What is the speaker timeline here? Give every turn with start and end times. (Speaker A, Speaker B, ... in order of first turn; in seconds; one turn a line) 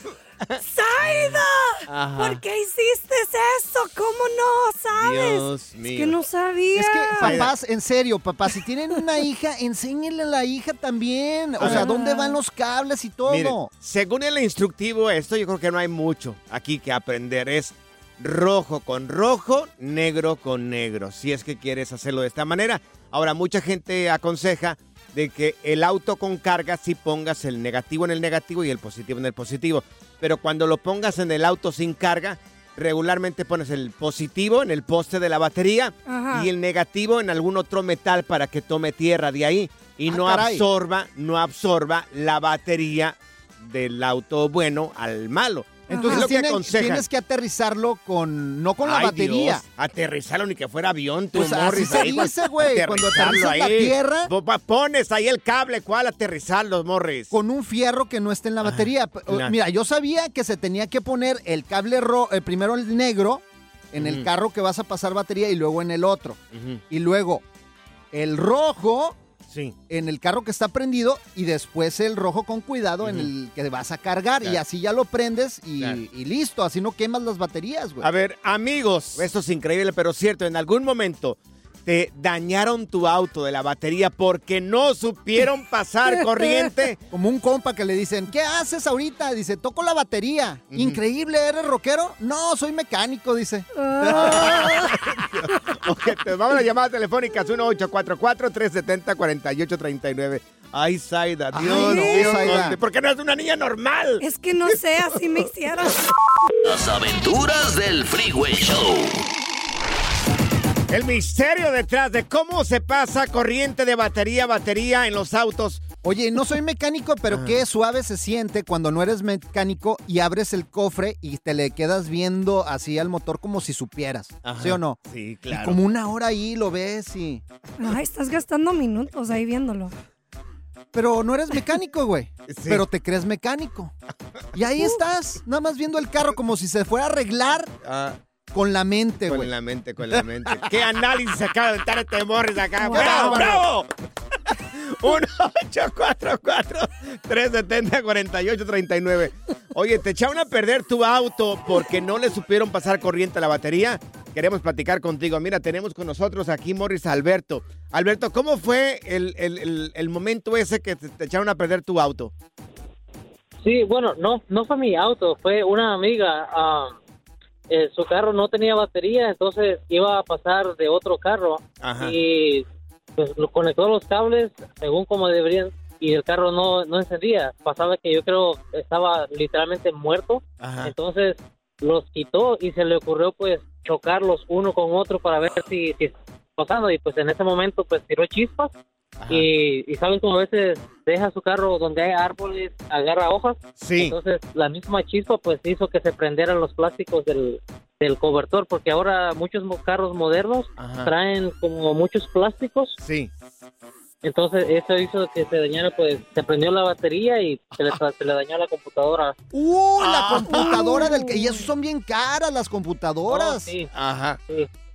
Speaker A: 0.6-7.4
Speaker B: 1.1-1.4
Speaker B: 1.9-2.4
Speaker B: 5.0-6.2
Speaker C: 6.7-13.7
Speaker B: 7.2-7.5
Speaker B: 11.6-11.9
Speaker A: 11.6-12.4
Speaker B: 13.3-47.0
Speaker A: 36.1-36.5
Speaker C: 40.1-40.6
Speaker A: 45.9-46.3
Speaker C: 45.9-49.6
Speaker B: 48.8-57.3
Speaker C: 51.3-54.3
Speaker C: 57.3-67.4
Speaker B: 58.6-59.6
Speaker B: 64.0-64.3
Speaker B: 66.5-66.8
Speaker C: 68.1-69.2
Speaker B: 69.5-69.8
Speaker C: 69.9-78.1
Speaker B: 73.0-73.3
Speaker B: 78.0-87.0
Speaker C: 87.1-94.8
Speaker B: 90.7-91.0
Speaker A: 93.8-95.0
Speaker B: 94.1-105.2
Speaker C: 101.5-102.8
Speaker A: 101.7-102.6
Speaker A: 104.2-106.0
Speaker D: 106.6-109.2
Speaker B: 110.9-115.8
Speaker C: 116.0-125.0
Speaker B: 117.3-117.6
Speaker B: 124.4-125.8
Speaker C: 125.5-127.4
Speaker A: 127.8-129.9
Speaker C: 130.9-133.9
Speaker B: 132.5-132.9
Speaker C: 134.5-137.7
Speaker B: 137.8-138.2
Speaker C: 138.5-139.5
Speaker B: 139.3-143.9
Speaker A: 142.9-143.5
Speaker C: 142.9-143.7
Speaker B: 144.6-162.3
Speaker E: 163.6-167.0
Speaker E: 167.7-172.7
Speaker B: 171.8-172.1
Speaker E: 173.2-188.7
Speaker B: 180.6-180.9
Speaker B: 189.2-189.5
Speaker E: 189.3-203.0
Speaker B: 193.8-194.2
Speaker B: 200.8-201.1
Speaker B: 203.0-203.3
Speaker E: 204.2-209.4
Speaker C: 209.5-213.7
Speaker B: 210.0-211.1
Speaker A: 210.5-211.5
Speaker E: 213.3-213.9
Speaker B: 213.9-214.4